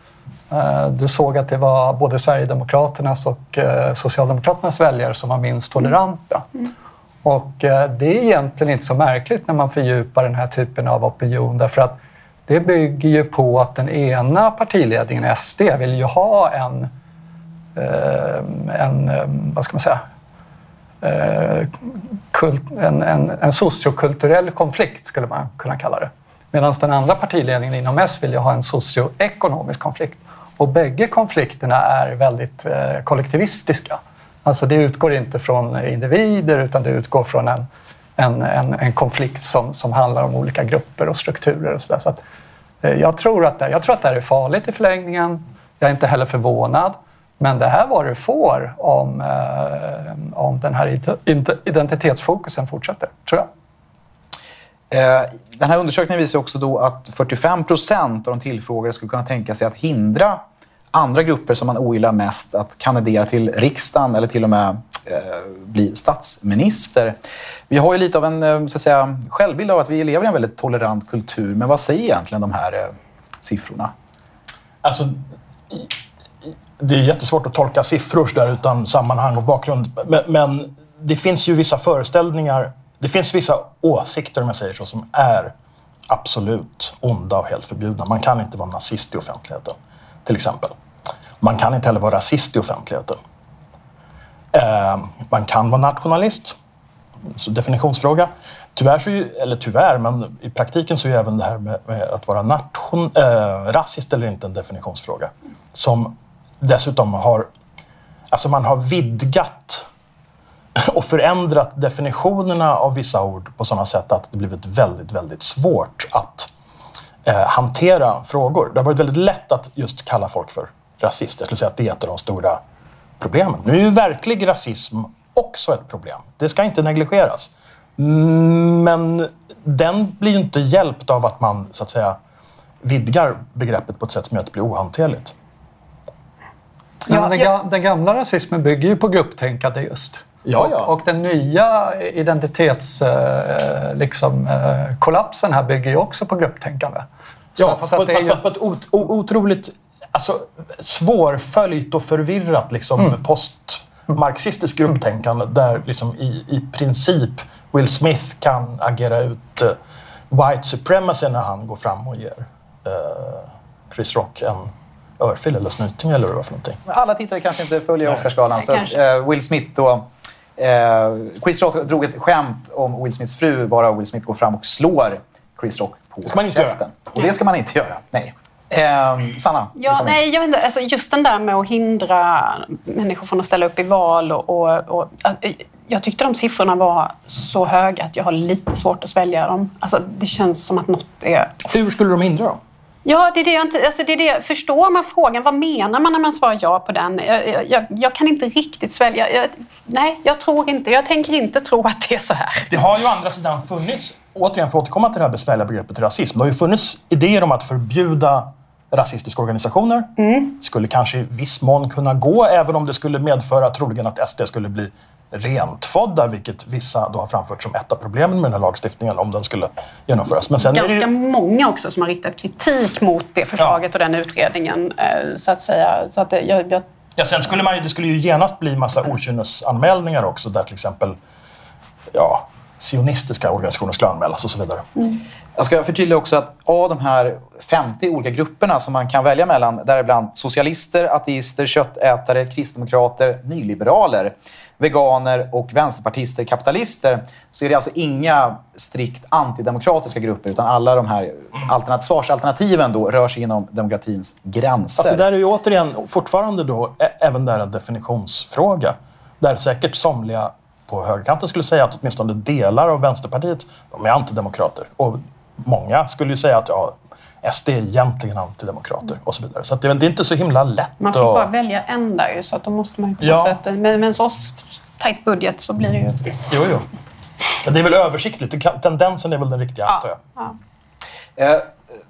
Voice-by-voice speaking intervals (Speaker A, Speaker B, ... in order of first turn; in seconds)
Speaker A: 0.5-6.5, 7.2-16.9, 17.8-20.0, 21.0-21.8, 22.3-37.7, 38.2-42.2, 42.8-53.5, 137.1-148.4
Speaker B: 54.9-60.4, 60.9-67.2, 67.7-73.9, 166.9-180.2, 235.6-255.2, 281.4-281.7
Speaker C: 74.8-75.9, 76.8-85.5, 86.1-90.7, 91.4-93.2, 94.5-96.6, 97.3-107.5, 108.3-109.9, 110.8-116.5, 117.2-122.6, 123.2-132.2, 132.8-135.3, 140.4-140.9, 147.6-159.8, 160.3-166.8, 176.3-176.8, 191.7-192.6, 202.7-221.1, 227.2-231.2, 232.1-235.1, 255.0-271.5, 273.2-273.6, 276.5-276.9, 277.6-280.2
Speaker D: 168.6-169.0, 179.8-191.6, 193.1-202.7, 210.2-210.5, 220.6-226.8, 271.0-276.2, 279.9-280.6